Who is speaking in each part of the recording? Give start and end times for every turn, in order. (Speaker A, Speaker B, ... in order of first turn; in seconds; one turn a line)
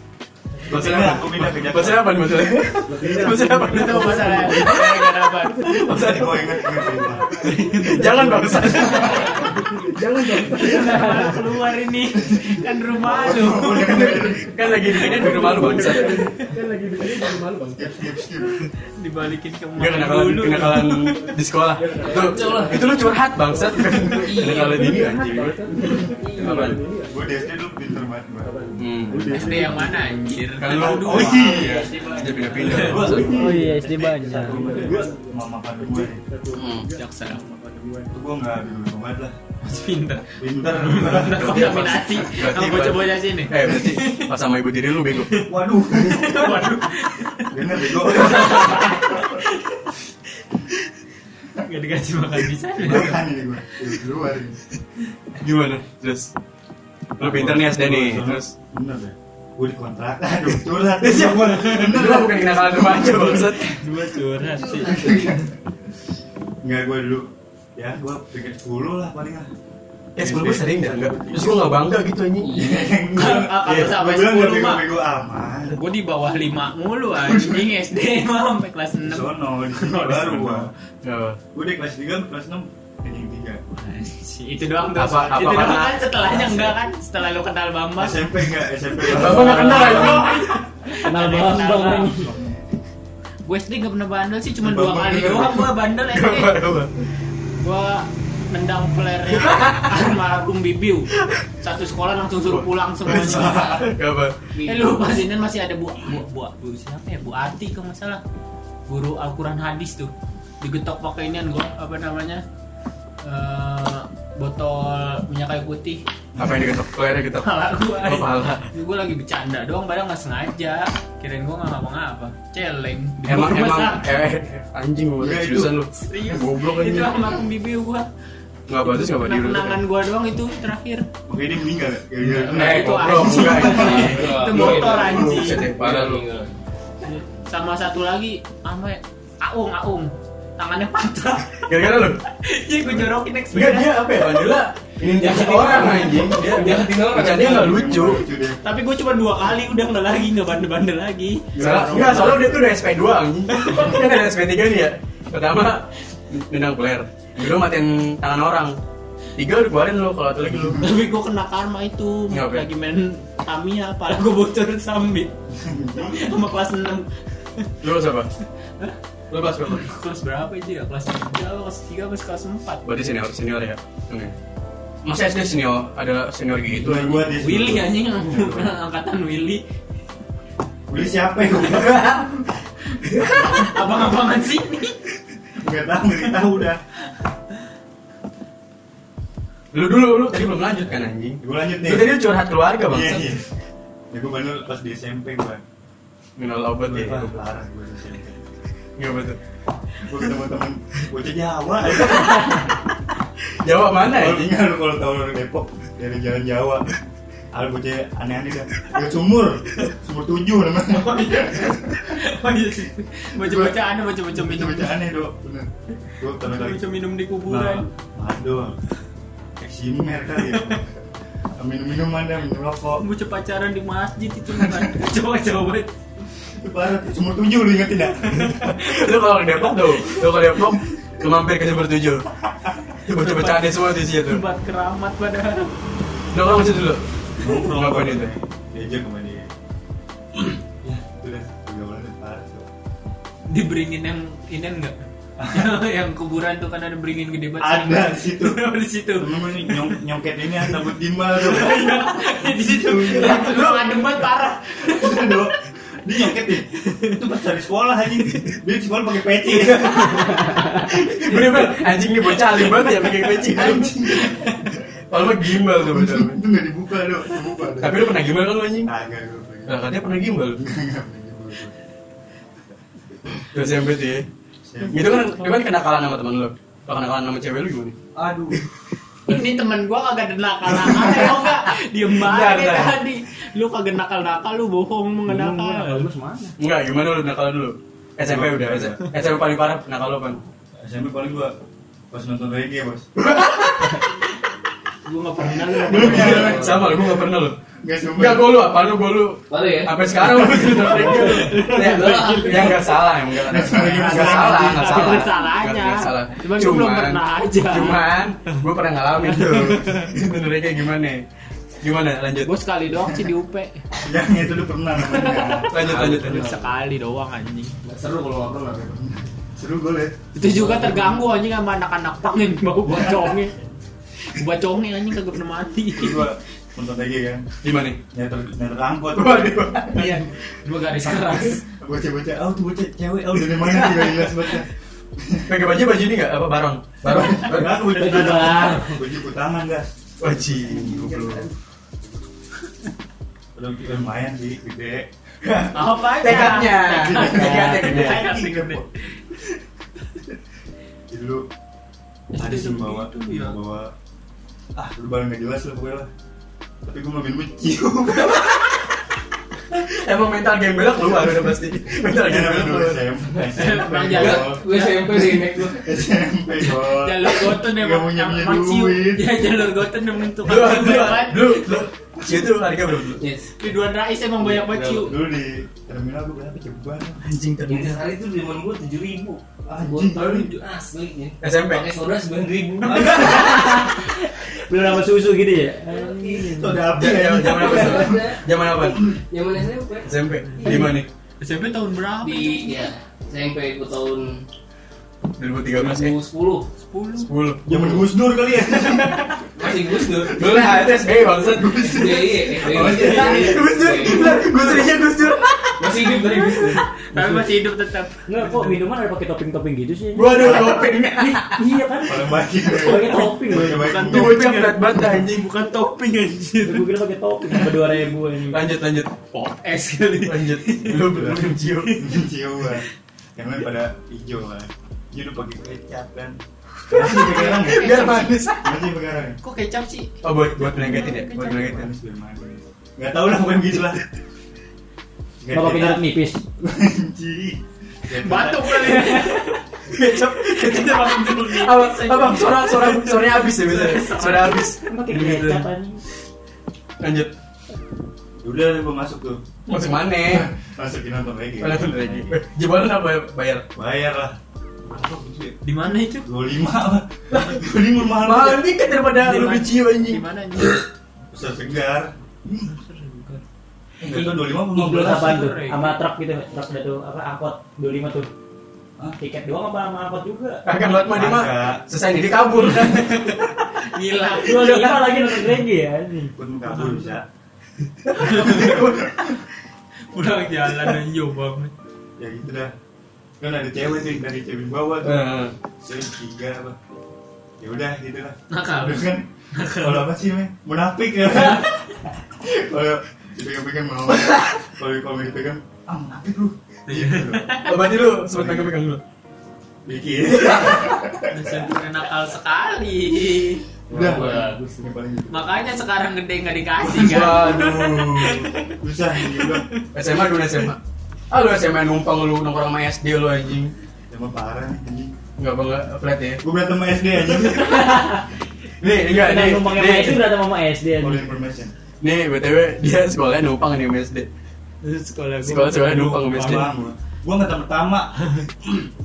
Speaker A: 0.7-2.5
Speaker B: 0.7-5.1
Speaker C: 2.8-4.8
Speaker D: 3.5-5.8
Speaker C: 5.4-11.5
Speaker B: 5.6-6.8
Speaker A: 5.8-7.3
Speaker D: 7.4-9.4
Speaker B: 7.4-9.4
Speaker A: 9.0-9.3
Speaker D: 10.2-16.5
Speaker A: 12.2-14.5
Speaker B: 14.0-16.2
Speaker C: 14.9-17.9
Speaker A: 17.7-18.7
Speaker D: 18.9-21.3
Speaker B: 19.8-25.6
Speaker C: 20.6-27.5
Speaker E: 22.0-22.9
Speaker E: 24.1-25.1
Speaker B: 26.2-26.9
Speaker A: 27.1-29.8
Speaker C: 28.4-30.6
Speaker B: 28.8-29.8
Speaker D: 29.3-31.8
Speaker B: 30.5-33.5
Speaker A: 30.7-36.2
Speaker C: 31.6-38.1
Speaker F: 31.9-32.5
Speaker D: 32.5-33.2
Speaker F: 33.2-34.9
Speaker B: 36.5-36.9
Speaker D: 37.0-37.4
Speaker A: 38.1-39.4
Speaker D: 39.6-44.3
Speaker A: 40.4-41.9
Speaker B: 41.1-45.5
Speaker D: 45.3-49.9
Speaker A: 45.4-46.7
Speaker A: 47.5-49.2
Speaker D: 51.6-53.2
Speaker A: 52.8-54.6
Speaker B: 55.4-56.3
Speaker A: 57.2-63.7
Speaker B: 57.2-58.5
Speaker B: 61.0-63.8
Speaker D: 63.3-65.0
Speaker E: 64.7-65.3
Speaker A: 64.7-65.5
Speaker A: 66.6-69.5
Speaker B: 70.2-72.6
Speaker A: 70.2-71.7
Speaker E: 72.4-73.0
Speaker A: 72.5-75.8
Speaker D: 73.1-74.9
Speaker D: 75.7-80.7
Speaker A: 77.2-77.7
Speaker A: 79.0-80.7
Speaker B: 81.0-81.4
Speaker A: 81.5-83.6
Speaker D: 83.8-88.4
Speaker B: 84.9-86.0
Speaker A: 86.2-86.7
Speaker A: 88.0-90.4
Speaker D: 89.0-92.3
Speaker B: 89.0-90.4
Speaker F: 90.9-92.3
Speaker A: 92.2-92.6
Speaker D: 93.4-96.6
Speaker A: 94.6-95.7
Speaker B: 96.1-96.9
Speaker D: 97.6-103.9
Speaker B: 99.3-100.0
Speaker B: 101.2-101.4
Speaker B: 102.5-104.4
Speaker A: 103.1-103.8
Speaker E: 104.5-105.0
Speaker D: 104.6-108.2
Speaker D: 108.9-112.4
Speaker D: 113.2-116.0
Speaker A: 116.3-116.7
Speaker B: 116.4-118.7
Speaker D: 117.4-124.2
Speaker B: 123.2-127.2
Speaker A: 125.2-125.8
Speaker D: 125.9-128.1
Speaker B: 128.7-129.8
Speaker D: 128.8-131.1
Speaker A: 131.3-134.3
Speaker D: 132.2-135.7
Speaker B: 132.3-136.2
Speaker E: 133.5-136.6
Speaker D: 137.0-144.3
Speaker B: 141.6-142.2
Speaker B: 143.5-148.2
Speaker E: 145.1-147.9
Speaker A: 147.2-148.6
Speaker D: 148.6-152.5
Speaker A: 151.5-152.5
Speaker B: 151.6-158.7
Speaker D: 153.5-154.0
Speaker B: 159.3-160.8
Speaker A: 160.4-160.8
Speaker D: 160.8-165.3
Speaker B: 162.3-162.7
Speaker A: 165.5-166.4
Speaker D: 166.0-167.7
Speaker B: 167.8-168.3
Speaker B: 169.3-169.9
Speaker D: 169.7-172.9
Speaker B: 172.8-174.3
Speaker B: 175.0-177.3
Speaker A: 176.7-178.7
Speaker D: 177.3-179.6
Speaker A: 180.9-182.3
Speaker B: 181.7-182.2
Speaker D: 183.2-185.0
Speaker A: 185.6-186.8
Speaker B: 189.7-193.3
Speaker A: 191.4-192.2
Speaker A: 192.8-193.4
Speaker A: 194.1-195.6
Speaker B: 196.4-197.3
Speaker A: 196.8-198.5
Speaker B: 199.0-199.4
Speaker A: 200.0-202.7
Speaker B: 202.2-202.5
Speaker B: 203.6-204.5
Speaker A: 204.0-206.8
Speaker A: 207.5-212.2
Speaker D: 210.9-215.0
Speaker A: 213.3-213.8
Speaker A: 214.3-216.8
Speaker D: 216.4-217.9
Speaker A: 217.4-218.8
Speaker A: 219.6-220.8
Speaker D: 220.4-220.8
Speaker A: 221.6-223.0
Speaker D: 223.0-225.9
Speaker A: 224.5-224.9
Speaker A: 226.5-228.6
Speaker B: 228.5-232.2
Speaker B: 233.1-234.4
Speaker D: 233.1-235.7
Speaker B: 236.3-237.0
Speaker A: 237.4-239.5
Speaker B: 237.5-238.3
Speaker A: 240.4-242.7
Speaker D: 243.5-249.9
Speaker A: 245.4-245.7
Speaker A: 247.6-248.6
Speaker A: 249.1-253.5
Speaker D: 251.3-255.5
Speaker B: 253.1-253.9
Speaker A: 254.8-260.7
Speaker D: 256.9-257.2
Speaker B: 260.5-264.5
Speaker A: 263.2-264.6
Speaker B: 265.1-266.4
Speaker A: 265.6-268.1
Speaker B: 267.8-268.9
Speaker A: 268.8-269.8
Speaker B: 269.7-270.6
Speaker A: 270.6-271.7
Speaker B: 273.5-274.2
Speaker A: 274.6-275.4
Speaker B: 274.9-277.9
Speaker A: 278.1-278.6
Speaker D: 279.2-286.1
Speaker B: 282.2-283.0
Speaker F: 285.2-286.6
Speaker B: 286.6-290.4
Speaker A: 288.2-289.1
Speaker A: 290.8-291.5
Speaker A: 292.1-293.1
Speaker B: 293.2-294.0
Speaker D: 295.1-296.7
Speaker A: 295.7-297.0
Speaker E: 295.9-296.8
Speaker B: 295.9-297.5
Speaker A: 297.8-298.6
Speaker B: 298.2-311.2
Speaker E: 299.5-302.9
Speaker D: 300.6-302.9
Speaker A: 303.4-305.3
Speaker D: 303.7-308.6
Speaker D: 309.2-310.1
Speaker B: 311.8-312.5
Speaker D: 312.4-313.8
Speaker A: 314.0-315.9
Speaker D: 315.0-317.7
Speaker B: 315.7-316.5
Speaker E: 315.8-316.7
Speaker E: 317.8-318.9
Speaker A: 318.8-320.1
Speaker D: 320.3-323.5
Speaker E: 320.4-321.2
Speaker A: 322.9-323.3
Speaker D: 324.3-326.3
Speaker A: 325.9-327.5
Speaker B: 327.6-328.0
Speaker A: 328.1-330.0
Speaker B: 329.1-330.1
Speaker D: 329.9-331.6
Speaker A: 331.4-335.5
Speaker B: 333.5-334.5
Speaker B: 335.5-338.1
Speaker A: 337.1-341.4
Speaker F: 337.9-338.9
Speaker B: 340.2-341.5
Speaker A: 343.5-345.1
Speaker B: 345.4-348.3
Speaker D: 345.7-348.9
Speaker A: 346.3-348.9
Speaker A: 351.1-351.5
Speaker D: 352.3-353.6
Speaker A: 352.4-353.9
Speaker A: 354.7-356.1
Speaker A: 356.8-358.5
Speaker B: 358.3-358.6
Speaker B: 359.7-363.0
Speaker A: 362.2-364.7
Speaker D: 363.5-365.3
Speaker E: 364.1-365.9
Speaker A: 365.4-369.5
Speaker D: 366.6-371.7
Speaker B: 370.4-373.2
Speaker E: 373.2-373.5
Speaker D: 373.6-375.1
Speaker E: 374.4-375.1
Speaker A: 375.0-377.3
Speaker B: 377.2-378.0
Speaker E: 377.6-383.6
Speaker A: 379.6-380.6
Speaker D: 380.1-380.5
Speaker B: 381.4-381.9
Speaker A: 382.8-383.5
Speaker F: 383.1-386.8
Speaker E: 385.9-388.5
Speaker A: 386.5-388.3
Speaker B: 386.9-389.1
Speaker E: 389.1-390.9
Speaker B: 390.0-391.1
Speaker D: 391.4-392.9
Speaker E: 392.2-394.4
Speaker B: 395.4-396.2
Speaker E: 395.7-396.7
Speaker D: 396.8-397.3
Speaker B: 397.2-398.0
Speaker A: 397.6-399.4
Speaker B: 398.8-399.3
Speaker E: 399.5-400.9
Speaker A: 400.2-404.2
Speaker B: 400.2-406.8
Speaker E: 401.8-404.9
Speaker E: 405.8-406.8
Speaker D: 407.1-408.7
Speaker F: 408.3-414.0
Speaker B: 410.1-411.6
Speaker A: 412.0-414.4
Speaker D: 413.1-416.9
Speaker B: 414.0-415.5
Speaker F: 416.6-418.7
Speaker B: 418.5-419.6
Speaker D: 419.6-421.3
Speaker B: 420.2-422.0
Speaker A: 421.0-429.4
Speaker D: 427.0-428.4
Speaker B: 427.4-428.6
Speaker D: 429.4-431.8
Speaker B: 430.2-431.9
Speaker A: 430.6-434.0
Speaker A: 435.4-436.0
Speaker F: 435.5-436.4
Speaker A: 436.6-439.1
Speaker D: 438.1-444.7
Speaker B: 439.9-445.6
Speaker F: 444.8-446.0
Speaker B: 447.0-447.3
Speaker A: 448.4-449.4
Speaker B: 449.7-450.5
Speaker A: 450.2-452.4
Speaker B: 451.6-453.6
Speaker A: 453.7-458.7
Speaker D: 455.6-456.3
Speaker B: 457.3-457.6
Speaker B: 458.1-460.2
Speaker D: 459.1-460.9
Speaker A: 461.3-462.7
Speaker D: 462.7-463.4
Speaker A: 464.0-465.4
Speaker F: 464.1-468.3
Speaker D: 464.8-466.0
Speaker F: 469.2-470.6
Speaker B: 470.6-473.5
Speaker A: 471.1-471.8
Speaker D: 473.8-475.2
Speaker F: 474.4-476.3
Speaker A: 476.4-477.2
Speaker D: 476.7-477.1
Speaker B: 478.0-479.1
Speaker D: 478.2-478.9
Speaker A: 478.2-479.1
Speaker D: 480.1-481.7
Speaker A: 482.2-482.7
Speaker A: 483.4-486.8
Speaker B: 485.0-485.5
Speaker A: 487.6-491.8
Speaker D: 488.5-490.1
Speaker A: 492.3-497.6
Speaker D: 496.9-497.8
Speaker B: 497.6-499.0
Speaker A: 498.3-498.7
Speaker A: 499.9-501.6
Speaker B: 500.4-500.8
Speaker D: 501.3-503.6
Speaker A: 503.9-505.6
Speaker E: 503.9-504.2
Speaker D: 505.3-509.7
Speaker A: 506.9-507.6
Speaker B: 506.9-508.4
Speaker A: 508.7-509.7
Speaker B: 509.9-510.8
Speaker B: 511.3-513.7
Speaker A: 514.1-515.2
Speaker B: 515.4-516.4
Speaker A: 516.4-518.1
Speaker B: 517.8-518.1
Speaker B: 518.8-520.3
Speaker F: 519.1-521.3
Speaker A: 521.0-521.7
Speaker B: 522.0-524.3
Speaker D: 524.8-526.7
Speaker B: 525.4-526.7
Speaker A: 526.2-528.9